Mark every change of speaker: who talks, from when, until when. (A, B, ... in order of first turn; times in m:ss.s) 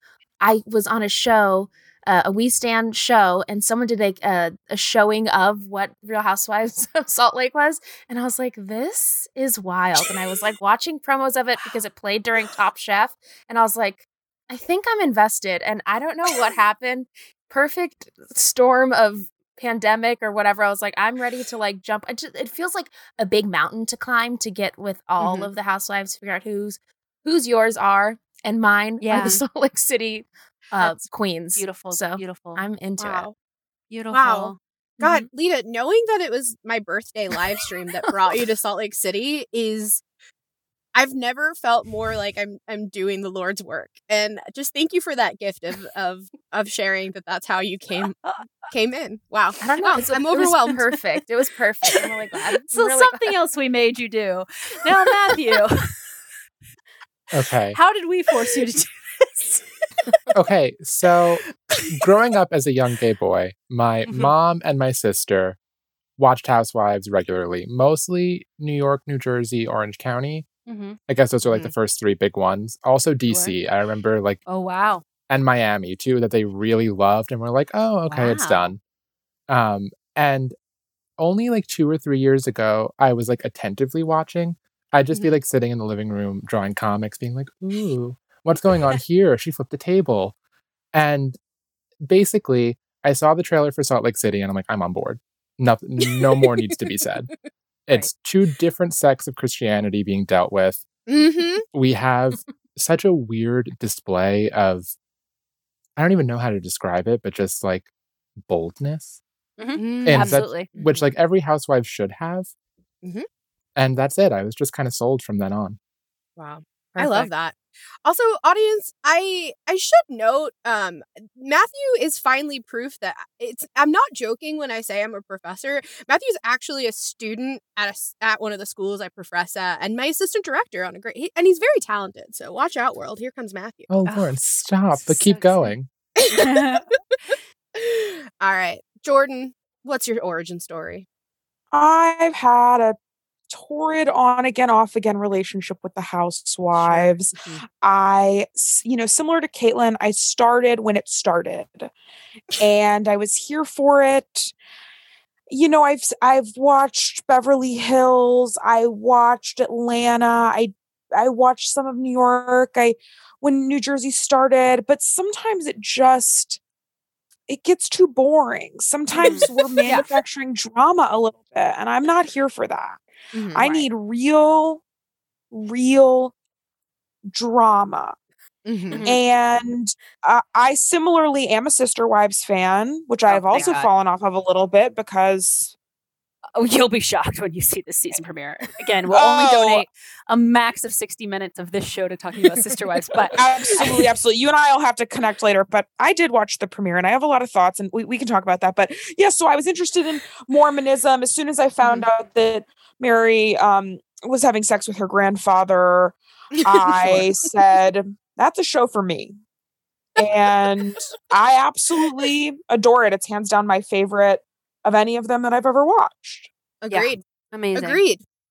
0:00.4-0:33.3 A
0:25.2-0:25.5 B
0:29.0-0:29.4 C
0:30.7-0:31.0 C
0:31.6-0:32.6 C
0:33.0-0:33.3 B
0:33.9-0:34.6 C
0:34.1-0:40.0 B
0:35.0-0:35.3 A
0:40.9-0:50.9 B
0:49.6-0:53.3 A
0:52.7-0:56.0 C
0:57.3-0:57.8 D
0:57.7-0:59.6 C
1:00.3-1:05.6 D
1:06.2-1:10.4 D
1:10.7-1:11.0 C
1:11.1-1:14.4 D
1:11.5-1:11.7 B
1:13.3-1:13.5 C
1:14.5-1:15.0 C
1:15.3-1:18.8 D
1:18.1-1:18.6 C
1:19.5-1:20.5 D
1:21.2-1:30.4 D
1:30.9-1:31.4 D
1:32.0-1:37.3 D
1:36.0-1:36.7 B
1:37.9-1:40.8 D
1:41.1-1:41.6 B
1:41.7-1:44.9 D
1:46.0-1:47.9 D
1:48.4-1:49.2 D
1:49.6-1:50.7 C
1:49.8-1:51.1 B
1:50.0-1:52.5 D
1:53.8-1:55.8 D
1:56.4-2:13.9 B
1:57.0-1:57.3 C
2:13.9-2:15.9 D
2:14.0-2:14.4 C
2:14.9-2:15.7 C
2:16.2-2:16.8 B
2:16.3-2:16.8 C
2:17.7-2:21.0 B
2:21.7-2:23.0 E
2:23.5-2:31.9 E
2:26.8-2:27.6 B
2:32.6-2:34.5 E
2:35.5-2:46.6 E
2:47.5-2:53.0 E
2:49.2-2:50.0 C
2:53.3-2:53.6 B
2:53.5-2:54.8 E
2:53.6-2:53.9 C
2:55.5-2:56.3 E
2:57.3-2:58.1 E
2:58.6-2:59.0 B
2:59.0-3:05.7 E
3:03.3-3:03.9 C
3:06.5-3:13.4 C
3:09.1-3:09.9 E
3:13.3-3:29.4 E
3:26.6-3:27.4 B
3:30.2-3:30.5 B
3:30.2-3:36.5 E
3:36.8-3:37.2 B
3:36.9-3:38.0 C
3:37.7-3:38.2 B